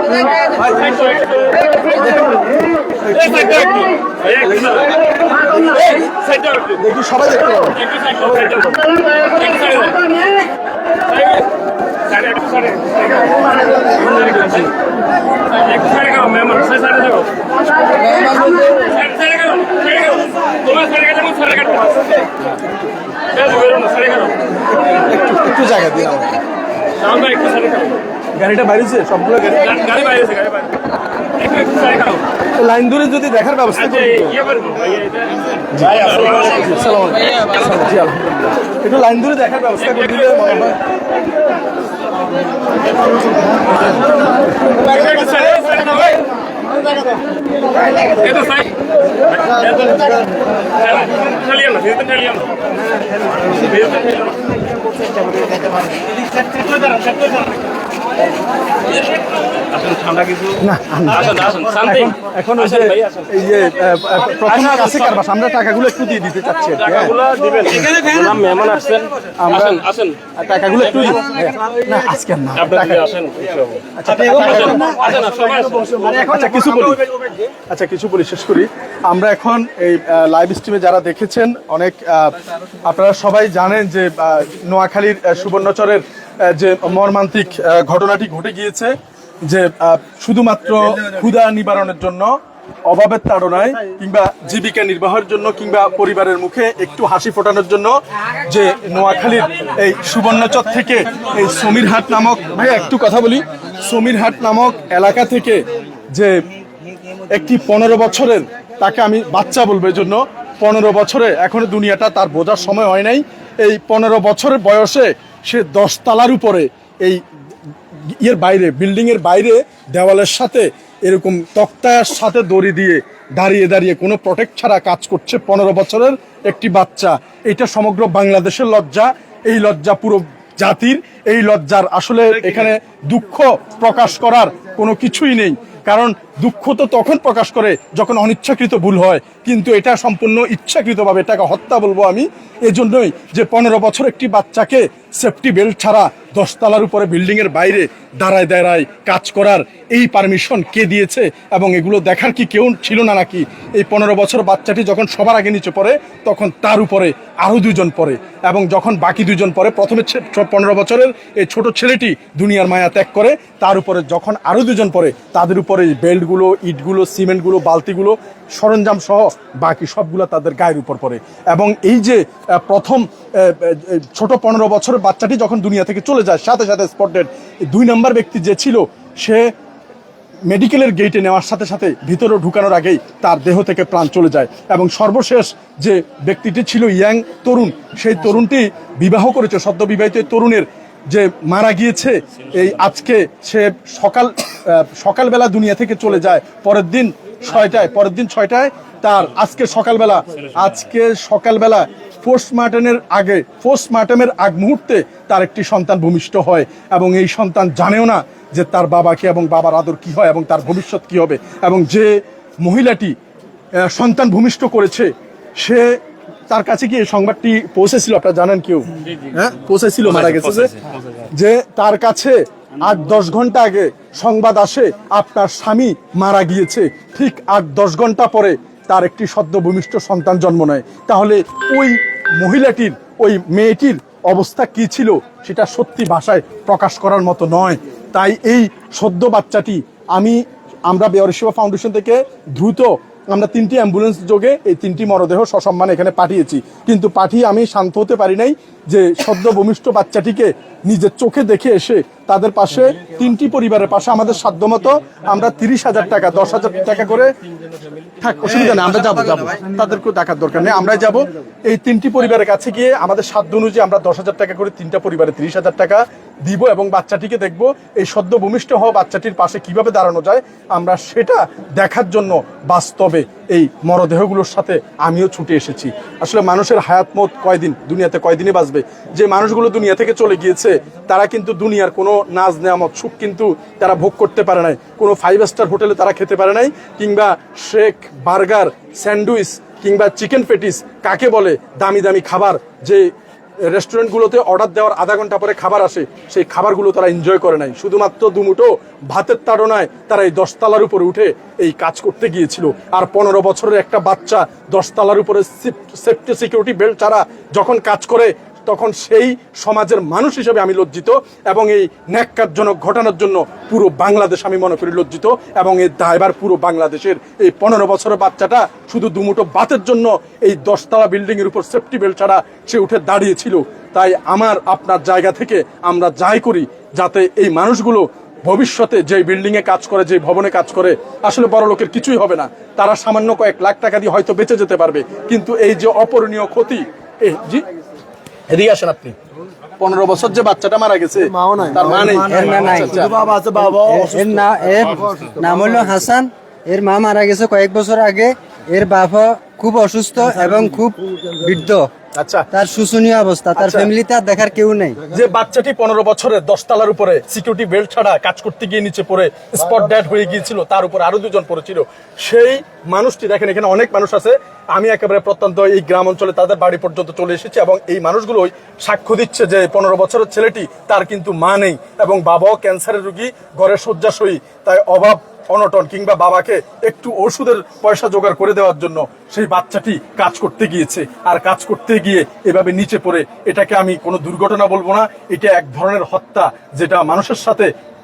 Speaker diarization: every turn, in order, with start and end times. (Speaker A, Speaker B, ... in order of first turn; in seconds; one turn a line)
Speaker A: 0.5-6.0
Speaker B: 6.3-6.5
Speaker A: 6.7-7.9
Speaker B: 9.2-10.0
Speaker B: 12.1-13.1
Speaker B: 14.0-14.7
Speaker B: 15.7-17.3
Speaker B: 18.9-21.9
Speaker B: 23.4-24.3
Speaker A: 24.7-26.4
Speaker B: 27.2-27.9
Speaker A: 28.4-30.2
Speaker B: 30.2-30.7
Speaker B: 31.5-32.2
Speaker A: 32.6-34.5
Speaker A: 35.7-40.8
Speaker A: 44.9-46.1
Speaker B: 48.2-48.7
Speaker B: 49.5-50.0
Speaker B: 50.9-52.5
Speaker B: 53.6-54.3
Speaker B: 59.8-60.5
Speaker A: 60.6-67.2
Speaker B: 67.3-69.1
Speaker A: 69.4-73.3
Speaker B: 69.8-70.2
Speaker B: 73.1-73.7
Speaker A: 74.0-77.0
Speaker B: 75.1-76.1
Speaker A: 77.7-88.9
Speaker A: 89.5-92.3
Speaker A: 92.9-97.9
Speaker A: 98.5-106.3
Speaker A: 107.3-117.2
Speaker A: 118.1-179.5
Speaker A: 180.5-213.1
Speaker A: 213.8-215.9
Speaker A: 216.5-257.3
Speaker A: 258.2-293.1
Speaker A: 293.7-337.6
Speaker A: 338.5-339.1
Speaker A: 339.8-343.2
Speaker B: 341.5-342.2
Speaker C: 342.2-343.1
Speaker B: 343.0-345.7
Speaker C: 343.9-351.9
Speaker A: 352.2-352.5
Speaker C: 352.5-355.0
Speaker A: 353.6-353.9
Speaker A: 355.1-387.7